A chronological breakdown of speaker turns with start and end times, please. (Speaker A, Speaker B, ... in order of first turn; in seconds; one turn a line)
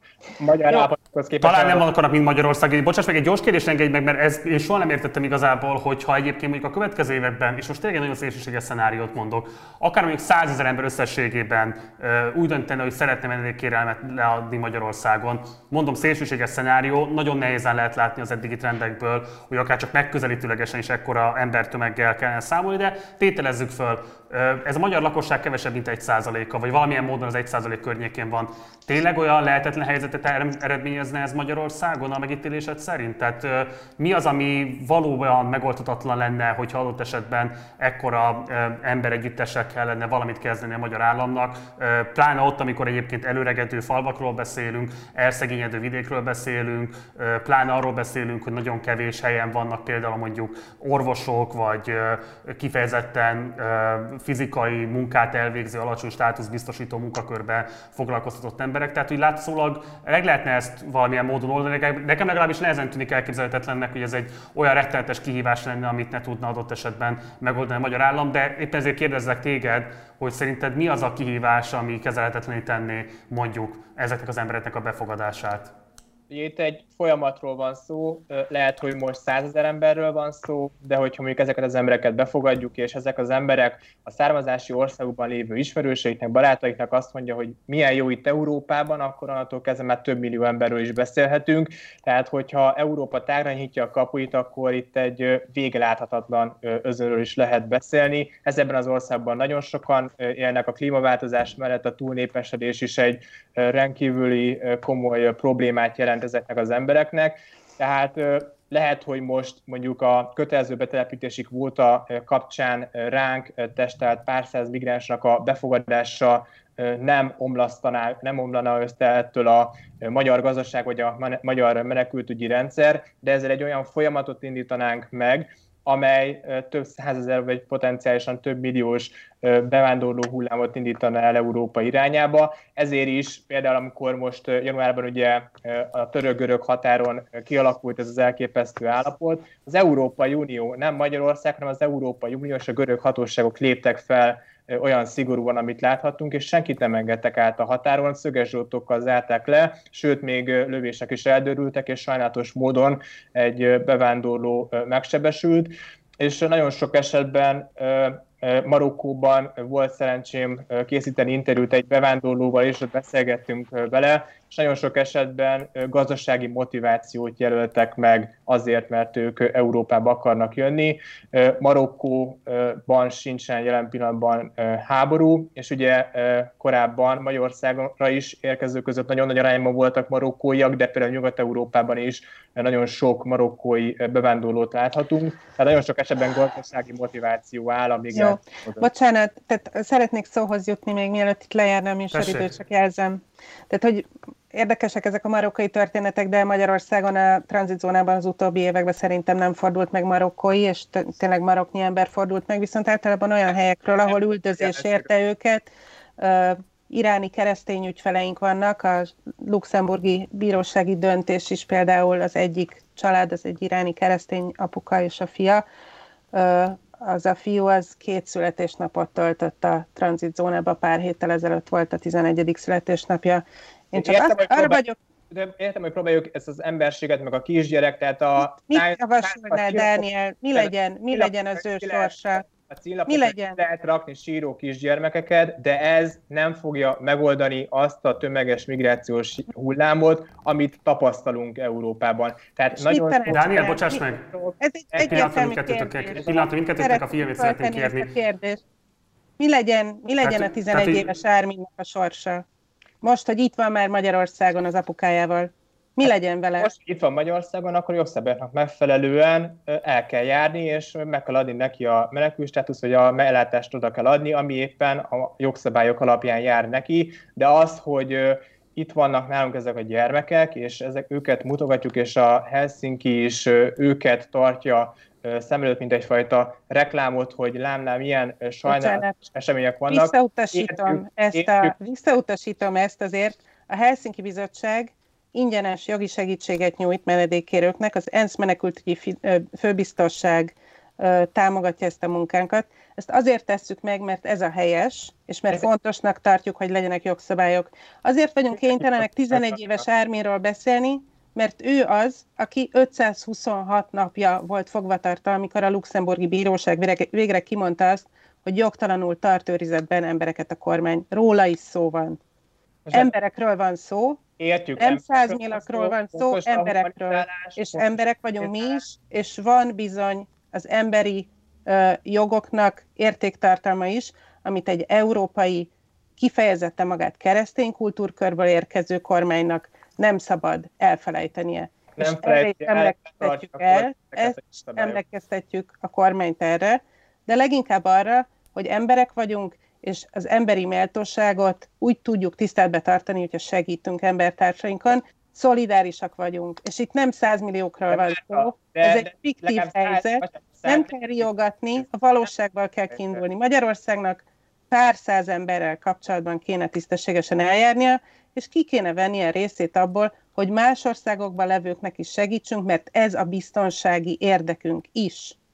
Speaker A: 0.3-1.8
Speaker B: 1.4-75.7
Speaker A: 76.3-188.9
Speaker C: 188.1-215.6
Speaker B: 192.1-192.5
Speaker A: 204.6-205.1
Speaker C: 216.3-224.9
Speaker A: 223.9-224.8
Speaker A: 225.3-243.8
Speaker C: 228.4-232.5
Speaker C: 233.1-233.6
Speaker C: 242.7-244.0
Speaker B: 243.3-244.2
Speaker A: 244.3-245.3
Speaker C: 244.6-248.6
Speaker B: 245.0-248.1
Speaker C: 249.4-252.4
Speaker B: 250.2-251.1
Speaker C: 253.0-256.7
Speaker A: 256.0-281.7
Speaker C: 278.7-279.1
Speaker C: 279.9-312.2
Speaker A: 298.7-299.6
Speaker A: 312.9-313.1
Speaker C: 312.9-314.2
Speaker A: 314.4-318.9
Speaker C: 314.8-365.4
Speaker A: 332.0-335.0
Speaker A: 347.9-350.9